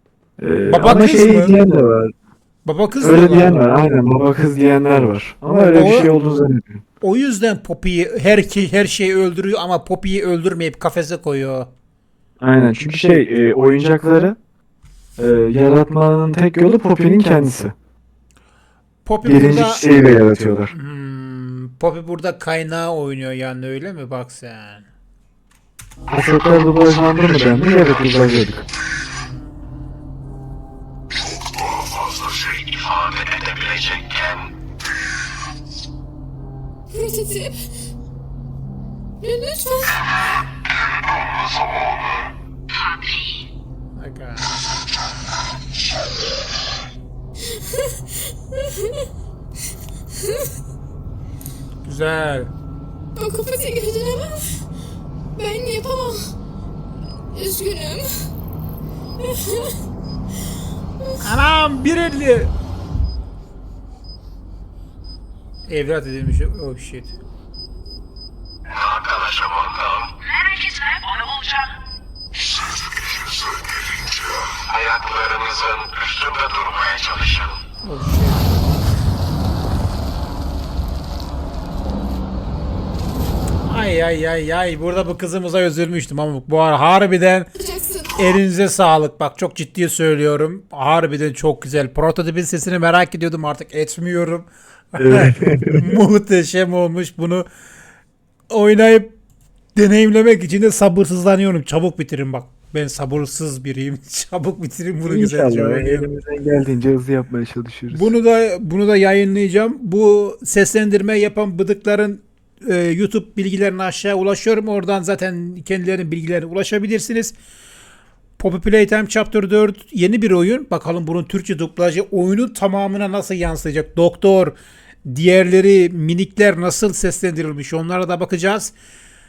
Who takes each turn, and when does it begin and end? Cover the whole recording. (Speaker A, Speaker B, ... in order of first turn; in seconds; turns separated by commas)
Speaker A: 0.4-2.1, Speaker B: 0.7-1.6, Speaker B: 2.6-3.6, Speaker A: 3.0-6.8, Speaker B: 5.7-6.1, Speaker B: 7.0-11.7, Speaker A: 12.4-14.3, Speaker A: 15.2-17.7, Speaker B: 19.0-19.9, Speaker A: 19.2-20.7, Speaker B: 20.7-24.9, Speaker A: 26.1-28.6, Speaker C: 31.8-34.5, Speaker D: 36.9-37.6, Speaker D: 39.2-40.0, Speaker E: 42.7-43.5, Speaker B: 44.0-44.6, Speaker D: 47.6-48.9, Speaker B: 51.8-52.5, Speaker D: 53.1-54.6, Speaker D: 55.4-56.3, Speaker D: 57.3-58.2, Speaker D: 59.2-59.8, Speaker B: 61.2-62.5, Speaker B: 65.7-67.1, Speaker C: 68.7-70.1, Speaker E: 70.2-71.7, Speaker C: 74.5-77.6, Speaker B: 77.8-78.6, Speaker B: 83.7-87.5, Speaker D: 87.5-88.1, Speaker B: 88.1-97.5, Speaker A: 95.0-96.0, Speaker B: 98.5-99.1, Speaker B: 99.7-106.1, Speaker A: 105.0-108.1, Speaker B: 107.9-117.3, Speaker B: 118.4-128.7